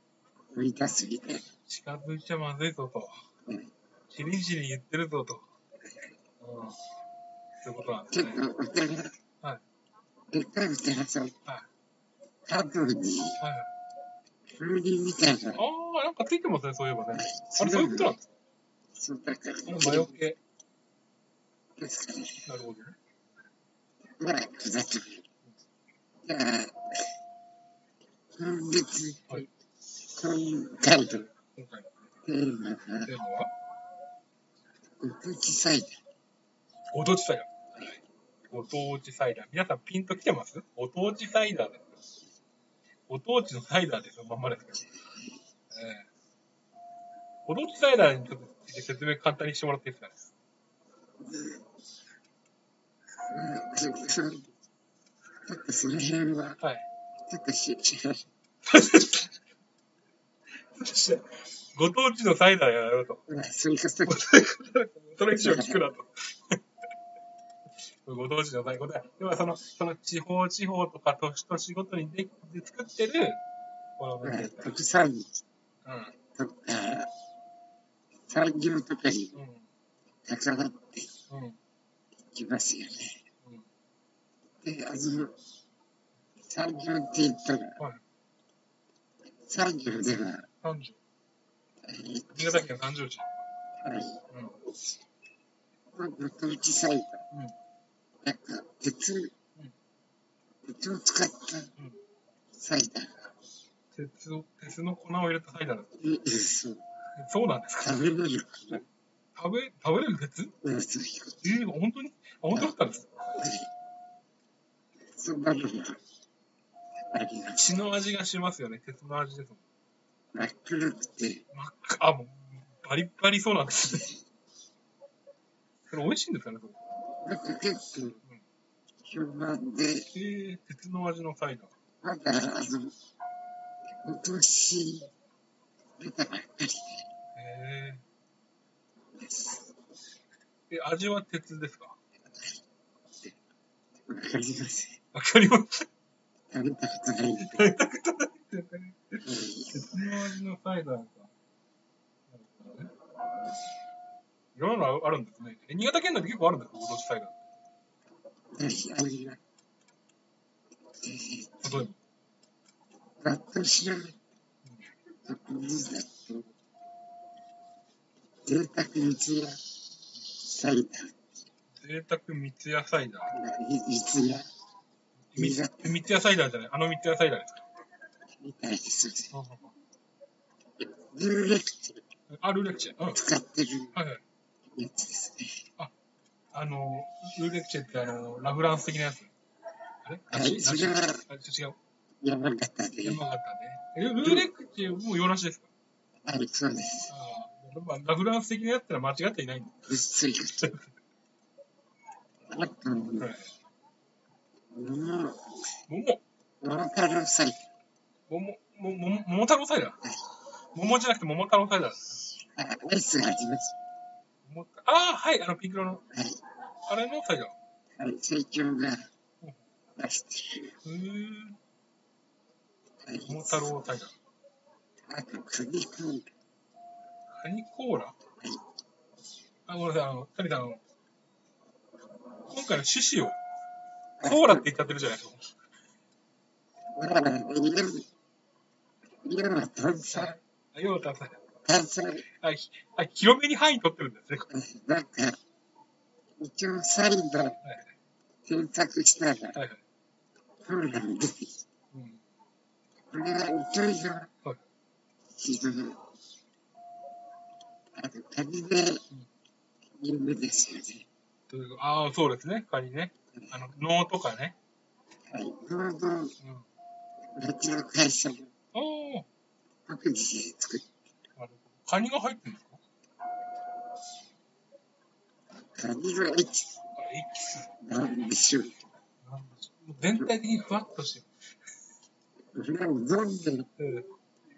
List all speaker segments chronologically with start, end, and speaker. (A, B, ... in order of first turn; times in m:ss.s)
0:00.5-0:01.5 A
0:01.7-0:03.3 B
0:04.1-0:05.5 B
0:06.4-0:06.8 B
0:07.6-0:08.4 B
0:08.1-0:09.2 A
0:10.3-0:11.4 A
0:12.5-0:13.4 A
0:13.4-0:13.7 B
0:14.5-0:15.6 A
0:15.6-0:18.3 B
0:17.1-0:18.2 A
0:19.0-0:20.2 A
0:19.7-0:20.4 B
0:21.8-0:22.5 A
0:22.5-0:23.0 B
0:24.2-0:25.2 A
0:26.2-0:27.0 A
0:28.4-0:29.5 A
0:30.1-0:31.3 A
0:31.3-0:31.9 B
0:32.2-0:33.1 A
0:33.0-0:33.5 B
0:35.0-0:36.0 A
0:36.9-0:42.0 B
0:43.1-0:44.9 B
0:45.7-0:46.1 B
0:47.5-0:50.3 B
0:51.2-0:51.6 A
0:53.3-0:54.5 A
0:55.5-0:56.6 A
0:56.6-0:56.9 B
0:57.3-0:58.3 A
0:58.6-0:59.3 B
1:00.6-1:03.2 B
1:03.3-1:04.3 A
1:04.1-1:06.6 B
1:05.3-1:05.8 A
1:08.0-1:13.4 B
1:14.0-1:14.8 B
1:14.2-1:15.4 A
1:15.8-1:16.1 B
1:16.3-1:17.1 A
1:18.3-1:19.4 A
1:19.4-1:19.7 B
1:20.3-1:21.1 A
1:21.3-1:21.6 B
1:22.3-1:23.2 A
1:24.6-1:25.4 A
1:26.4-1:27.8 A
1:29.5-1:30.5 A
1:30.6-1:31.0 B
1:31.8-1:32.7 A
1:32.4-1:33.2 B
1:33.8-1:34.2 A
1:34.3-1:34.6 B
1:35.9-1:37.2 A
1:38.2-1:39.3 A
1:40.6-1:41.7 A
1:42.5-1:43.2 A
1:43.9-1:45.9 B
1:46.0-1:46.8 A
1:47.2-1:47.9 B
1:47.8-1:48.9 A
1:49.4-1:50.5 B
1:50.6-1:51.4 A
1:51.4-1:53.1 B
1:53.4-1:53.7 A
1:55.1-1:56.0 A
1:57.1-1:57.8 A
1:57.6-1:59.6 B
2:00.3-2:01.4 A
2:01.5-2:04.1 B
2:05.9-2:06.8 B
2:07.2-2:08.2 A
2:09.0-2:10.1 A
2:10.1-2:11.7 B
2:12.0-2:13.0 A
2:14.0-2:15.1 A
2:16.0-2:17.1 A
2:17.4-2:18.0 B
2:19.2-2:19.7 A
2:20.7-2:22.0 B
2:24.1-2:25.0 A
2:25.1-2:25.9 B
2:26.5-2:27.7 A
2:27.4-2:31.3 B
2:29.2-2:29.9 A
2:32.3-2:32.9 B
2:34.6-2:37.4 B
2:38.5-2:39.4 A
2:41.0-2:41.8 A
2:41.6-2:42.0 B
2:43.2-2:44.2 A
2:45.2-2:46.5 A
2:48.4-2:49.6 A
2:50.4-2:51.2 A
2:51.7-2:53.3 B
2:53.3-2:54.5 A
2:55.3-2:57.6 B
2:55.4-2:56.0 A
2:58.4-2:59.4 A
2:59.3-2:59.8 B
3:00.8-3:02.0 A
3:02.3-3:03.2 B
3:03.1-3:04.0 A
3:03.9-3:04.2 B
3:04.8-3:05.7 A
3:06.5-3:09.3 B
3:10.0-3:11.8 B
3:10.3-3:11.2 A
3:12.2-3:13.2 A
3:13.0-3:15.7 B
3:14.2-3:14.5 A
3:16.2-3:17.1 A
3:17.1-3:19.8 B
3:19.9-3:20.8 A
3:22.5-3:23.3 A
3:23.2-3:23.5 B
3:24.8-3:25.5 A
3:25.9-3:26.2 B
3:26.6-3:27.7 A
3:28.3-3:30.0 B
3:30.7-3:32.2 B
3:32.5-3:33.8 A
3:34.4-3:36.0 B
3:36.1-3:36.4 A
3:36.9-3:37.6 B
3:38.0-3:39.1 A
3:40.0-3:40.8 A
3:40.8-3:41.6 B
3:43.0-3:43.6 A
3:43.3-3:44.2 B
3:45.1-3:46.3 A
3:47.3-3:48.2 B
3:49.7-3:50.8 B
3:52.4-3:53.4 B
3:54.2-3:54.7 A
3:54.2-3:55.5 B
3:57.0-3:58.1 A
3:59.2-4:00.4 A
4:00.1-4:01.4 B
4:01.6-4:02.3 A
4:02.4-4:04.5 B
4:04.5-4:05.4 A
4:06.4-4:07.6 A
4:07.6-4:07.9 B
4:08.4-4:09.6 A
4:09.6-4:09.8 B
4:10.6-4:11.6 A
4:11.9-4:12.2 B
4:13.1-4:14.3 A
4:15.3-4:16.0 A
4:18.0-4:19.0 A
4:20.0-4:21.1 A
4:21.5-4:24.6 B
4:25.3-4:26.4 A
4:26.4-4:26.7 B
4:27.4-4:28.5 A
4:28.7-4:29.3 B
4:29.9-4:30.9 A
4:31.4-4:32.8 B
4:35.7-4:36.8 A
4:37.0-4:37.7 B
4:37.8-4:38.8 A
4:39.2-4:41.3 B
4:42.5-4:43.7 A
4:43.8-4:44.1 B